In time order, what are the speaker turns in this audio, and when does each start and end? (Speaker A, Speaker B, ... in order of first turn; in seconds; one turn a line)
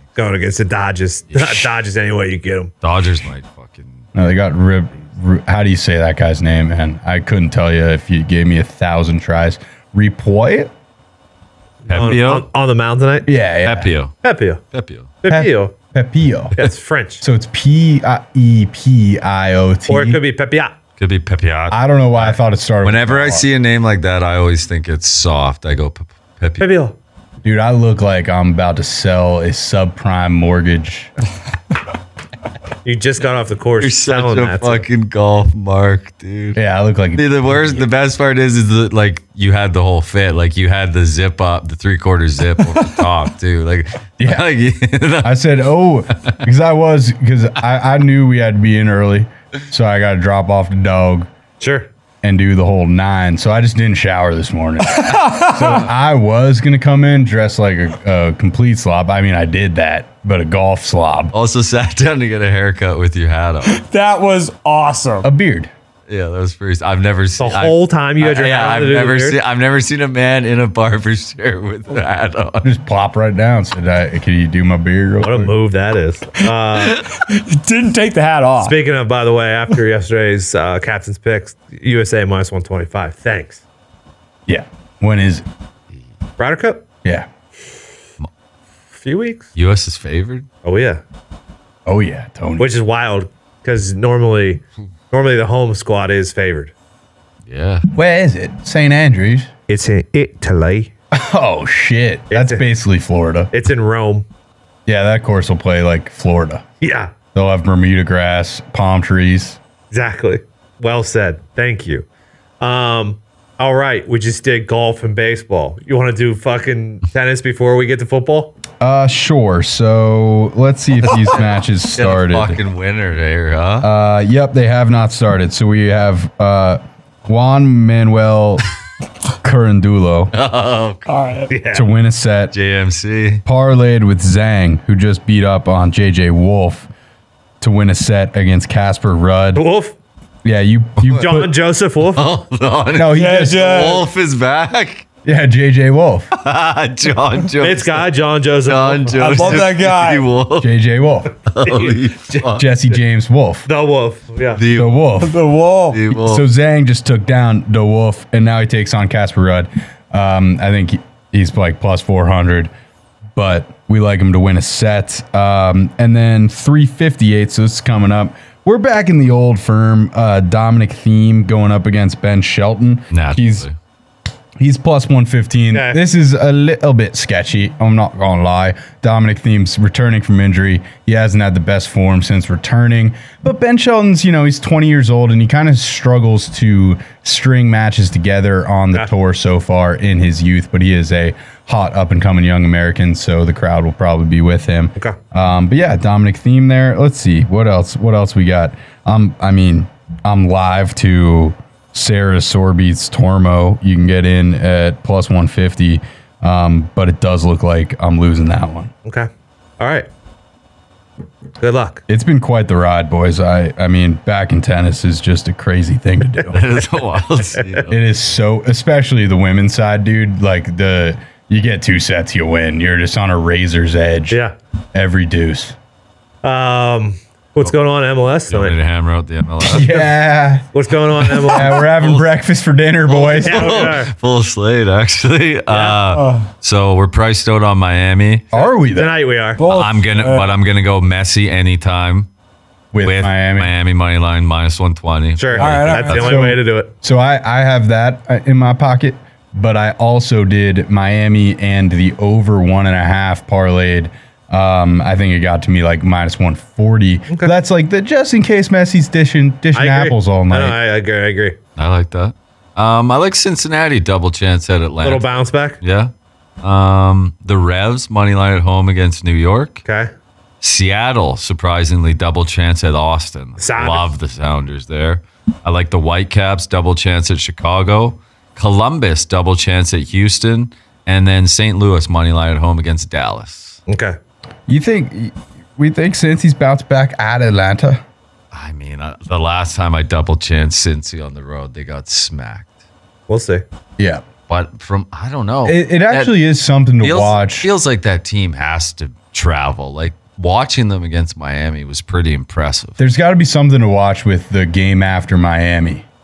Speaker A: 0.1-2.7
Speaker B: 1.3-1.7
Speaker B: 2.8-4.0
Speaker C: 4.1-10.7
Speaker B: 11.8-12.4
Speaker A: 11.9-13.3
Speaker C: 13.2-13.9
Speaker B: 13.6-14.2
Speaker A: 14.2-14.6
Speaker B: 14.7-15.1
Speaker A: 15.2-15.7
Speaker C: 15.3-16.6
Speaker A: 16.6-17.2
Speaker C: 17.2-20.2
Speaker A: 19.9-20.7
Speaker B: 21.0-26.7
Speaker C: 21.7-23.5
Speaker A: 26.6-26.9
Speaker C: 27.4-31.1
Speaker A: 32.8-34.8
Speaker B: 33.8-36.6
Speaker C: 36.5-37.9
Speaker B: 37.1-45.4
Speaker C: 44.2-44.5
Speaker C: 45.2-51.3
Speaker A: 51.6-51.9
Speaker C: 52.2-61.3
Speaker D: 54.9-55.8
Speaker B: 61.3-63.8
Speaker D: 63.6-65.3
Speaker C: 65.2-65.7
Speaker B: 66.1-72.7
Speaker A: 67.4-69.4
Speaker C: 72.6-75.5
Speaker A: 75.2-77.1
Speaker D: 76.8-78.8
Speaker A: 78.6-83.6
Speaker C: 84.5-85.5
Speaker A: 86.4-86.8
Speaker A: 88.9-89.5
Speaker B: 89.5-90.5
Speaker A: 90.6-91.0
Speaker C: 91.8-92.7
Speaker A: 92.6-96.7
Speaker B: 97.5-97.8
Speaker C: 97.9-99.5
Speaker A: 99.7-100.9
Speaker C: 101.1-103.5
Speaker A: 102.3-102.6
Speaker A: 103.5-104.2
Speaker C: 104.8-106.6
Speaker A: 106.8-107.1
Speaker C: 107.3-109.6
Speaker A: 109.9-112.0
Speaker A: 112.6-118.5
Speaker C: 118.8-122.6
Speaker B: 121.2-123.9
Speaker C: 123.8-128.6
Speaker C: 129.4-130.3
Speaker B: 130.3-131.1
Speaker D: 131.1-131.5
Speaker A: 131.5-131.8
Speaker C: 131.7-132.5
Speaker B: 132.5-133.4
Speaker C: 133.4-136.9
Speaker C: 137.6-139.6
Speaker A: 139.5-139.9
Speaker C: 140.4-141.5
Speaker A: 141.1-142.2
Speaker B: 142.1-145.1
Speaker C: 142.9-143.9
Speaker D: 143.1-144.1
Speaker C: 145.2-146.3
Speaker B: 146.3-148.1
Speaker A: 147.6-149.6
Speaker B: 148.6-150.7
Speaker D: 149.2-150.2
Speaker C: 150.6-151.3
Speaker B: 151.5-152.7
Speaker A: 151.6-152.5
Speaker C: 152.5-153.7
Speaker A: 153.7-154.6
Speaker B: 154.6-155.1
Speaker C: 154.7-155.5
Speaker D: 155.2-156.0
Speaker B: 155.9-156.4
Speaker C: 156.1-162.7
Speaker C: 163.3-173.7
Speaker B: 173.1-173.7
Speaker C: 174.6-208.9
Speaker A: 175.7-176.0
Speaker A: 209.0-210.1
Speaker A: 211.6-212.0
Speaker C: 212.1-216.7
Speaker B: 216.5-218.0
Speaker A: 217.5-217.8
Speaker C: 217.9-224.4
Speaker A: 224.3-224.5
Speaker C: 224.9-225.8
Speaker A: 226.4-228.8
Speaker B: 228.5-230.0
Speaker C: 229.6-230.7
Speaker A: 230.7-231.9
Speaker C: 231.4-233.9
Speaker B: 231.9-232.3
Speaker B: 233.1-238.4
Speaker A: 233.4-234.1
Speaker A: 235.7-236.0
Speaker D: 236.1-236.5
Speaker C: 238.5-239.1
Speaker A: 238.5-239.6
Speaker D: 239.6-240.5
Speaker B: 239.7-242.3
Speaker C: 242.9-243.7
Speaker B: 243.0-246.4
Speaker A: 245.4-246.9
Speaker D: 245.6-246.5
Speaker C: 246.1-260.8
Speaker A: 259.7-261.6
Speaker B: 261.8-265.3
Speaker A: 265.0-265.8
Speaker B: 265.8-269.8
Speaker A: 269.8-270.1
Speaker B: 270.6-283.8
Speaker A: 273.6-274.1
Speaker A: 283.9-284.2
Speaker C: 284.7-288.0
Speaker B: 288.5-292.7
Speaker A: 293.3-293.6
Speaker C: 294.0-294.2
Speaker B: 294.5-296.4
Speaker C: 295.6-297.7
Speaker B: 297.0-303.0
Speaker C: 303.0-306.0